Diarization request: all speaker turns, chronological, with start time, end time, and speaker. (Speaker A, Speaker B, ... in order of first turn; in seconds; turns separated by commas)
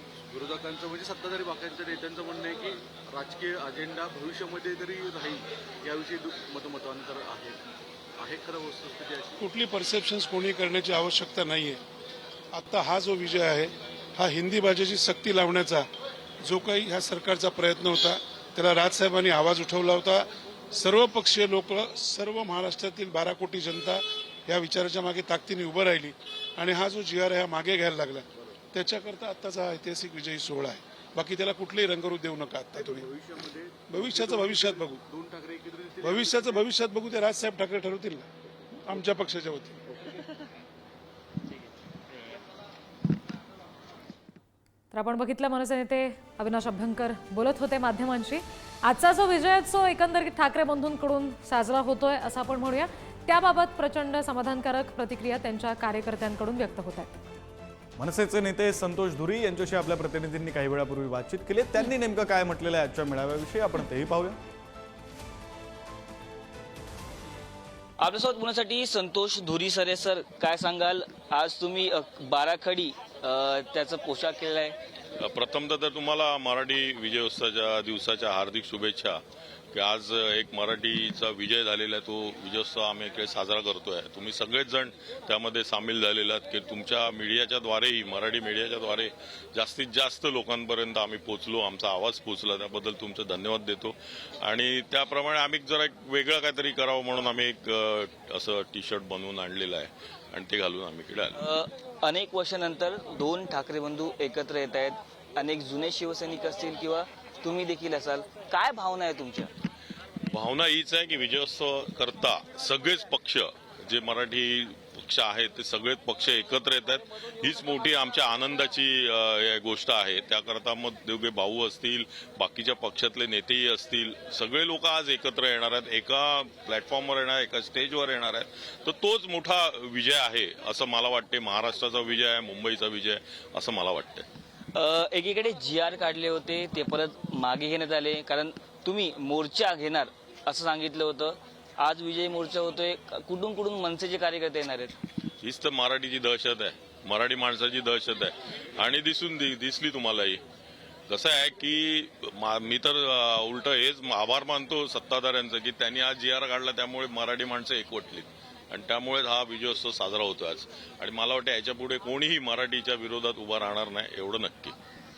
Speaker A: 0.3-7.6, Speaker A: 8.2-9.4, Speaker B: 9.4-11.8, Speaker B: 12.5-15.9, Speaker B: 16.4-33.1, Speaker A: 32.8-36.6, Speaker B: 33.9-35.0, Speaker B: 36.0-38.3, Speaker B: 38.8-39.8, Speaker C: 44.9-57.1, Speaker D: 58.0-64.4, Speaker E: 68.0-74.8, Speaker F: 75.2-79.2, Speaker F: 79.7-101.4, Speaker E: 101.3-109.5, Speaker F: 110.3-134.2, Speaker E: 134.7-144.9, Speaker F: 145.4-150.4, Speaker F: 151.1-164.8